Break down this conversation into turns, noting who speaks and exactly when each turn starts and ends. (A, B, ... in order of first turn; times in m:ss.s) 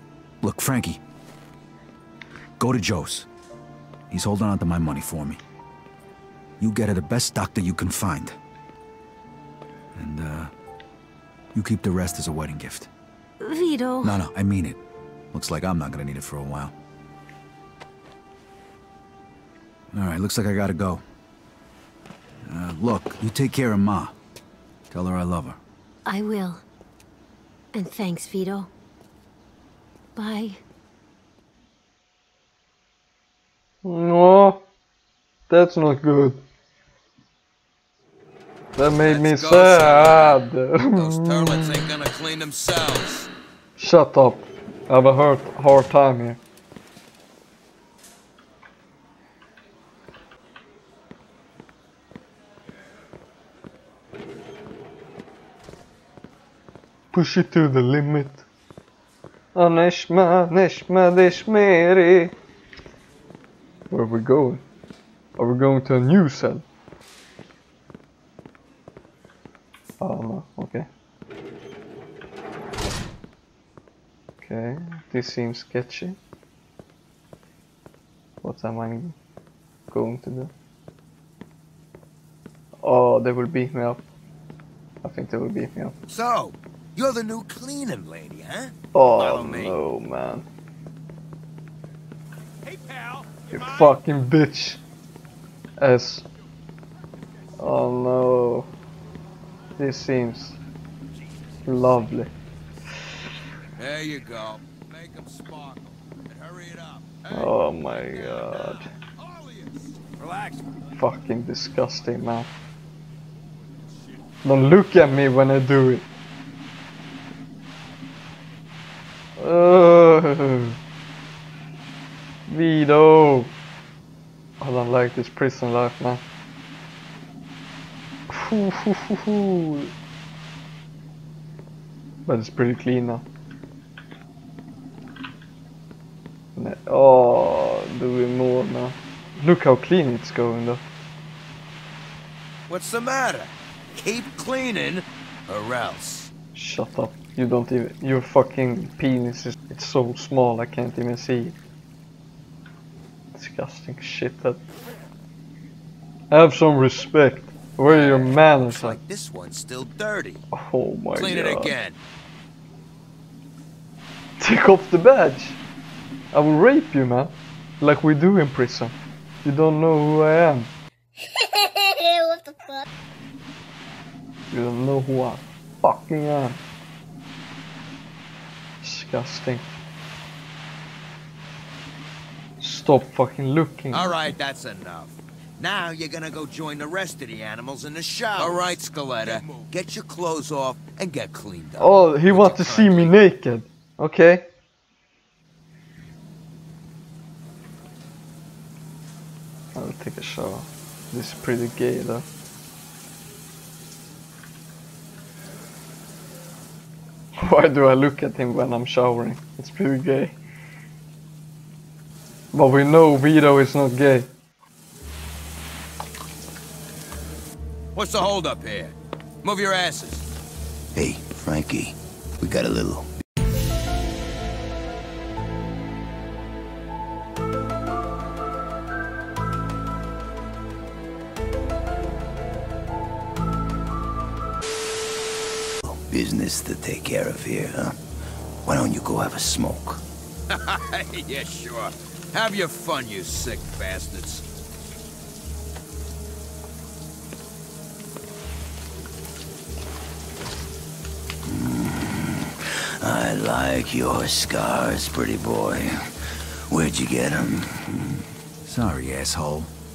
0:00.4-0:01.0 A
0:02.6-0:03.3 A
0:04.1-0:05.4 A
0:06.6-0:08.4 A
0:09.9-0:10.5 A
0:11.6-0:12.9 A
0:13.4-0:14.2 B
0:14.0-0:14.8 A
0:15.3-0:16.7 A
0:19.9-0:21.0 A
0:22.5-0:24.1 A
0:24.9-0:25.6 A
0:26.1-0:26.6 B
0:27.7-0:28.7 B
0:30.2-0:30.6 B
0:33.8-0:34.6 C
0:35.5-0:36.4 C
0:38.8-0:41.9 C
0:39.0-0:43.3 D
0:43.8-0:46.4 C
0:57.1-0:58.4 C
0:59.6-1:02.3 C
1:03.9-1:04.6 C
1:05.4-1:06.6 C
1:10.0-1:10.9 C
1:14.4-1:16.2 C
1:18.4-1:19.2 C
1:19.9-1:20.5 C
1:22.8-1:24.0 C
1:25.0-1:25.9 C
1:26.1-1:29.8 D
1:28.9-1:30.4 C
1:32.7-1:33.4 D
1:33.5-1:34.8 C
1:35.8-1:36.2 C
1:37.6-1:38.7 C
1:39.8-1:40.6 C
1:41.6-1:42.3 C
1:43.8-1:50.6 D
1:47.3-1:48.9 C
1:51.0-1:52.5 C
1:54.4-1:56.0 C
1:59.4-2:00.8 C
2:02.5-2:03.5 C
2:04.6-2:06.2 C
2:08.3-2:09.9 C
2:12.2-2:13.2 C
2:16.6-2:20.8 C
2:22.7-2:26.3 D
2:26.5-2:31.6 C
2:33.3-2:34.6 C
2:36.3-2:39.0 C
2:37.9-2:40.4 D
2:40.5-2:41.8 C
2:41.1-2:42.0 D
2:44.4-2:45.6 C
2:46.3-2:50.7 C
2:54.5-2:56.6 C
2:58.8-2:59.7 C
3:02.6-3:04.3 C
3:03.9-3:13.1 D
3:11.8-3:14.5 C
3:19.8-3:22.2 C
3:27.4-3:30.4 C
3:32.5-3:34.3 C
3:38.0-3:40.2 D
3:40.9-3:43.1 E
3:55.8-3:58.0 E
3:58.6-4:00.0 E
4:00.5-4:04.4 D
4:11.5-4:16.0 E
4:16.7-4:18.2 E
4:18.6-4:19.7 A